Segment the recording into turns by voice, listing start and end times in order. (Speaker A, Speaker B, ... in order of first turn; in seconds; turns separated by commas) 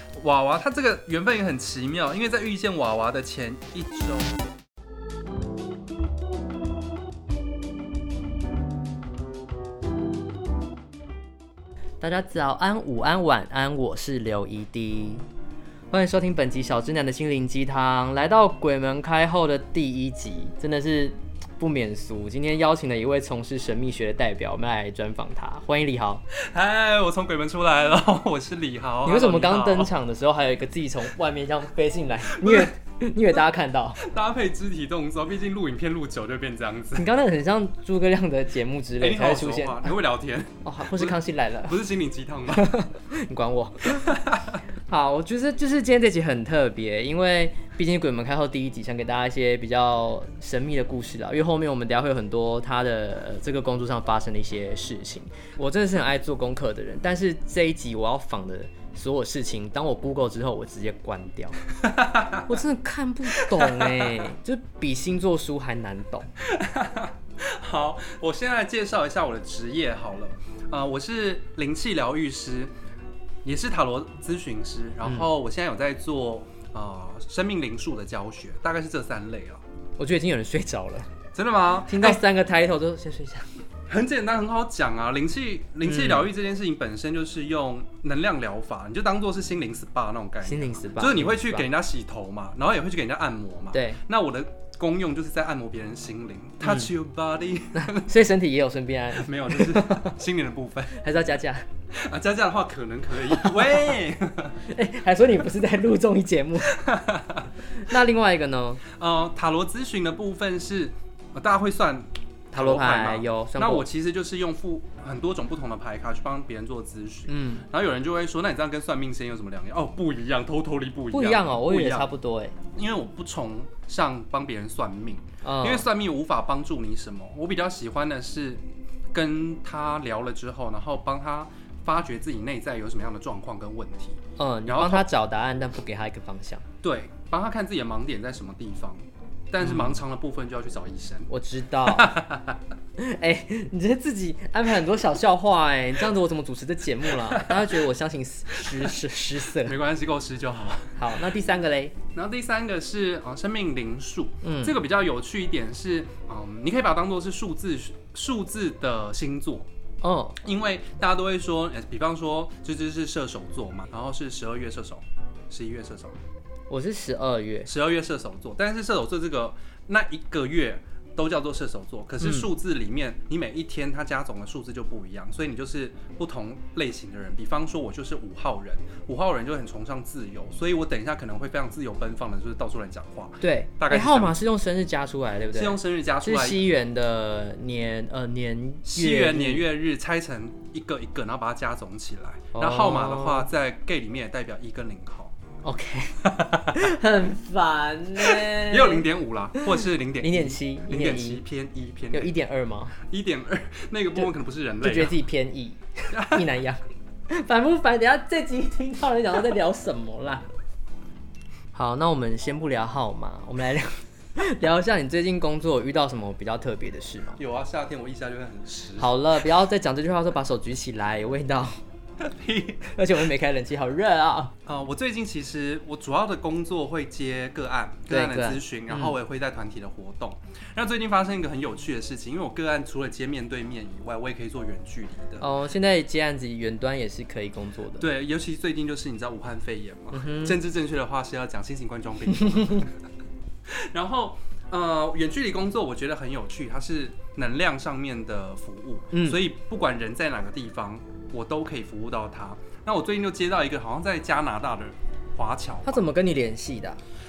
Speaker A: 0.1-4.4, Speaker B: 12.0-15.2, Speaker B: 15.9-26.2, Speaker A: 26.3-29.9, Speaker B: 29.0-34.0, Speaker A: 32.3-32.7, Speaker A: 34.0-37.1, Speaker B: 37.0-39.9, Speaker A: 39.0-42.7, Speaker B: 40.6-41.8, Speaker B: 42.5-44.1, Speaker A: 43.9-44.6, Speaker B: 44.9-61.6, Speaker A: 61.8-62.5, Speaker B: 62.5-66.3, Speaker A: 63.3-64.3, Speaker A: 66.4-72.7, Speaker A: 73.4-79.6, Speaker B: 80.0-81.1, Speaker A: 81.3-82.2, Speaker B: 81.8-83.5, Speaker A: 83.9-98.1, Speaker B: 85.8-86.3, Speaker B: 90.4-91.7, Speaker B: 93.7-94.0, Speaker B: 97.7-100.2, Speaker A: 99.1-101.0, Speaker B: 100.9-101.7, Speaker A: 101.9-104.6, Speaker B: 104.7-106.8, Speaker A: 106.7-107.5, Speaker B: 107.8-108.8, Speaker A: 108.8-122.1, Speaker B: 112.5-113.8, Speaker B: 117.3-117.7, Speaker B: 121.1-122.5, Speaker A: 122.7-135.1, Speaker B: 125.4-125.9, Speaker B: 134.4-136.6, Speaker A: 136.8-141.3, Speaker B: 139.6-140.0, Speaker B: 141.3-142.1, Speaker A: 141.8-142.6, Speaker B: 143.0-149.8, Speaker A: 147.3-147.6, Speaker A: 148.6-151.2, Speaker B: 150.9-151.9, Speaker A: 152.1-159.7, Speaker B: 154.4-154.8, Speaker B: 160.0-160.4, Speaker A: 160.4-166.2, Speaker B: 166.7-167.7, Speaker A: 167.7-184.4, Speaker B: 172.2-172.5, Speaker B: 183.4-189.6, Speaker A: 185.5-186.6, Speaker A: 188.8-195.3, Speaker B: 192.5-193.5, Speaker B: 195.6-199.0, Speaker A: 196.2-196.9, Speaker A: 198.2-202.3, Speaker B: 199.6-201.4, Speaker B: 202.1-202.9, Speaker A: 203.0-205.2, Speaker B: 204.8-210.4, Speaker A: 206.1-206.5, Speaker B: 211.7-217.4, Speaker A: 217.4-219.1, Speaker B: 219.0-221.8, Speaker A: 222.2-222.9, Speaker B: 222.8-224.5, Speaker A: 224.6-235.4, Speaker B: 228.1-229.2, Speaker B: 235.4-238.1, Speaker A: 238.0-242.9, Speaker B: 240.1-240.6, Speaker A: 243.7-256.1, Speaker B: 249.1-249.4, Speaker B: 255.8-257.0